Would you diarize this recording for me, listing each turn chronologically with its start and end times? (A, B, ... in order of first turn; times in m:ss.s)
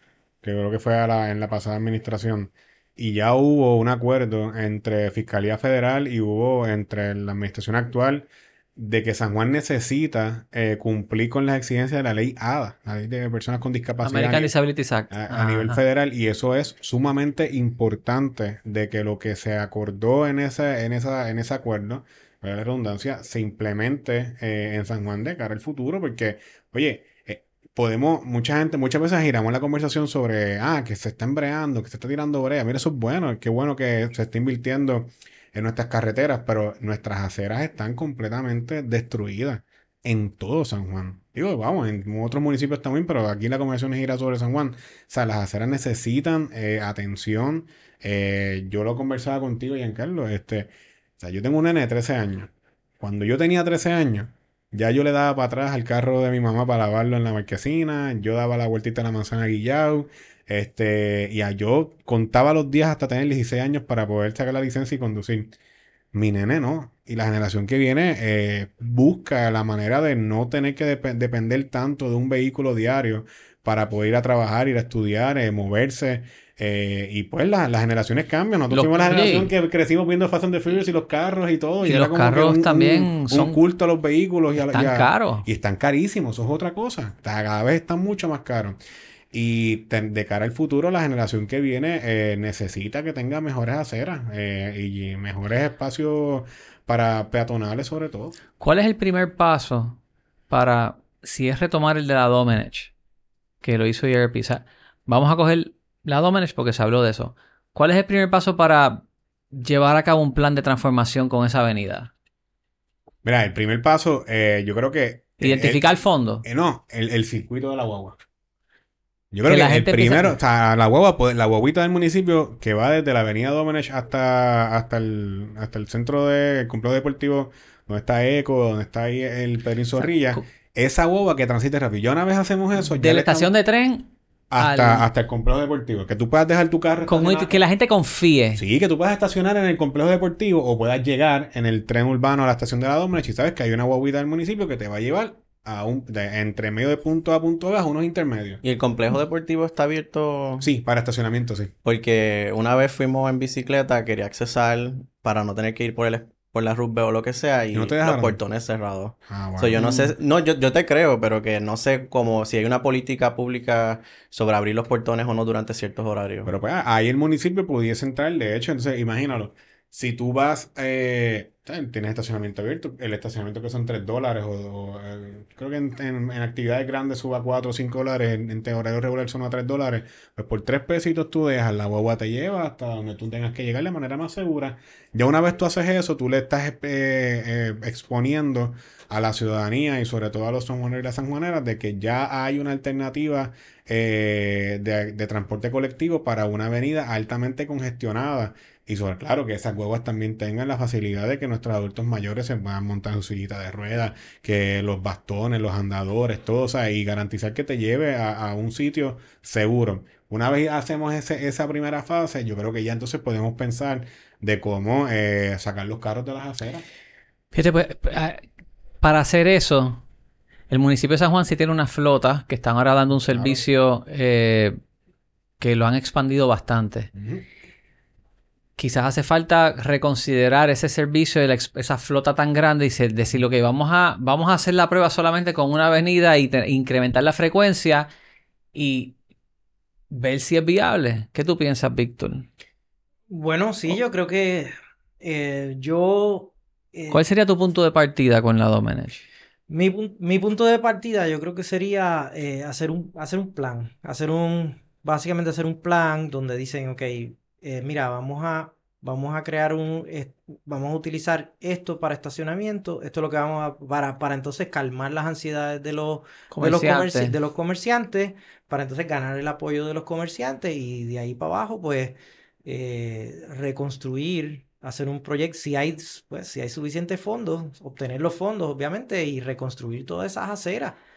0:00.4-0:14.5 A
0:14.0-0:15.8 B
0:15.1-1:05.5 A
1:06.1-1:28.8 A
1:18.7-1:19.5 B
1:21.8-1:23.6 B
1:24.6-1:25.4 B
1:29.3-1:38.4 A
1:38.6-1:42.9 B
1:43.6-1:52.1 B
1:53.2-1:55.9 A
1:55.4-1:56.4 B
1:56.4-1:58.2 A
1:59.3-2:13.5 A
1:59.5-2:00.3 B
2:10.0-2:10.4 B
2:12.8-2:15.1 B
2:14.5-2:17.5 A
2:17.1-2:18.6 B
2:18.5-2:28.6 A
2:28.6-2:30.7 C
2:30.6-2:31.7 A
2:31.8-2:46.5 C
2:37.7-2:38.4 A
2:39.3-2:39.9 A
2:39.8-2:40.1 B
2:46.4-3:36.8 A
3:37.5-3:38.4 B
3:39.0-3:40.0 B
3:40.7-3:44.8 B
3:43.2-3:43.6 A
3:45.6-3:47.1 B
3:47.1-3:47.4 A
3:48.8-3:58.1 B
3:58.7-3:59.2 B
4:00.1-4:02.5 B
4:03.3-4:07.2 D
4:07.1-4:09.2 B
4:09.7-4:41.0 D
4:26.5-4:27.3 B